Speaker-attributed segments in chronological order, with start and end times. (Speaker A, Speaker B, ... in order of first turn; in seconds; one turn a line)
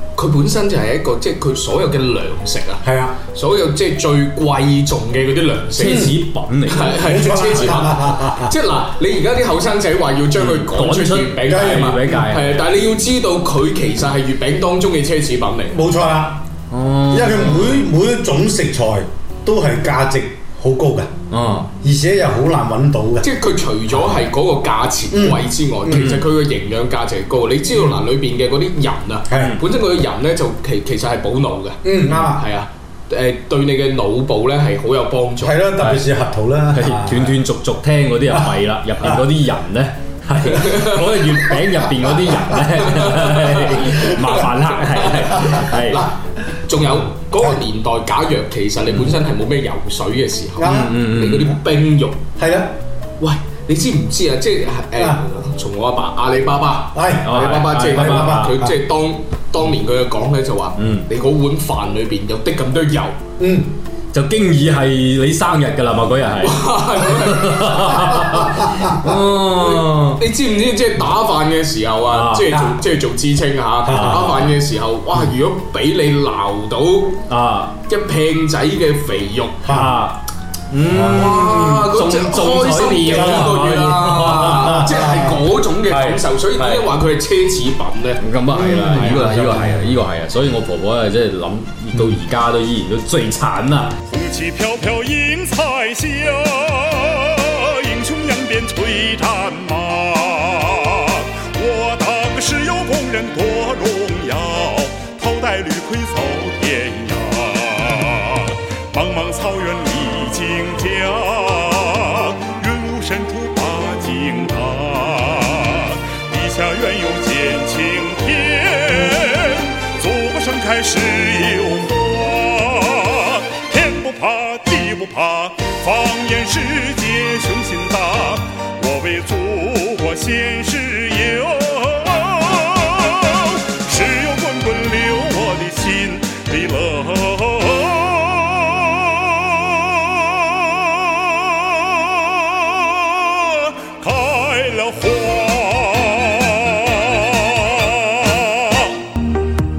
Speaker A: 0.2-6.1
Speaker B: 2.8-3.2
Speaker C: 5.8-7.2
Speaker B: 5.8-6.2
Speaker A: 6.7-15.8
Speaker B: 7.0-8.5
Speaker C: 10.4-12.6
Speaker B: 11.5-12.0
Speaker B: 15.7-16.4
Speaker C: 16.7-17.9
Speaker B: 17.1-21.1
Speaker C: 21.3-21.7
Speaker B: 21.8-23.3
Speaker A: 23.2-35.5
Speaker B: 23.9-24.2
Speaker B: 25.1-25.4
Speaker C: 25.9-26.2
Speaker B: 29.3-29.6
Speaker C: 29.3-29.6
Speaker B: 31.8-32.4
Speaker B: 35.4-37.4
Speaker C: 35.8-36.0
Speaker C: 36.7-46.1
Speaker B: 38.3-39.2
Speaker A: 40.5-41.2
Speaker A: 42.8-46.1
Speaker A: 46.7-52.2
Speaker B: 50.6-50.9
Speaker C: 50.6-51.6
Speaker B: 52.4-52.7
Speaker A: 53.2-63.2
Speaker B: 56.9-58.7
Speaker C: 57.2-58.5
Speaker C: 60.8-61.1
Speaker B: 63.4-63.7
Speaker C: 64.1-70.2
Speaker A: 66.4-68.3
Speaker B: 68.3-69.1
Speaker A: 69.6-77.2
Speaker C: 72.1-72.5
Speaker B: 72.5-72.8
Speaker B: 73.8-74.4
Speaker C: 73.9-74.5
Speaker C: 77.3-77.8
Speaker A: 77.9-79.7
Speaker B: 79.6-79.9
Speaker C: 79.7-85.0
Speaker B: 80.9-81.4
Speaker A: 81.0-88.2
Speaker B: 83.1-83.5
Speaker B: 84.5-85.5
Speaker C: 85.9-86.9
Speaker C: 88.2-94.0
Speaker B: 88.5-90.0
Speaker A: 89.0-89.8
Speaker B: 91.9-92.2
Speaker D: 94.1-148.9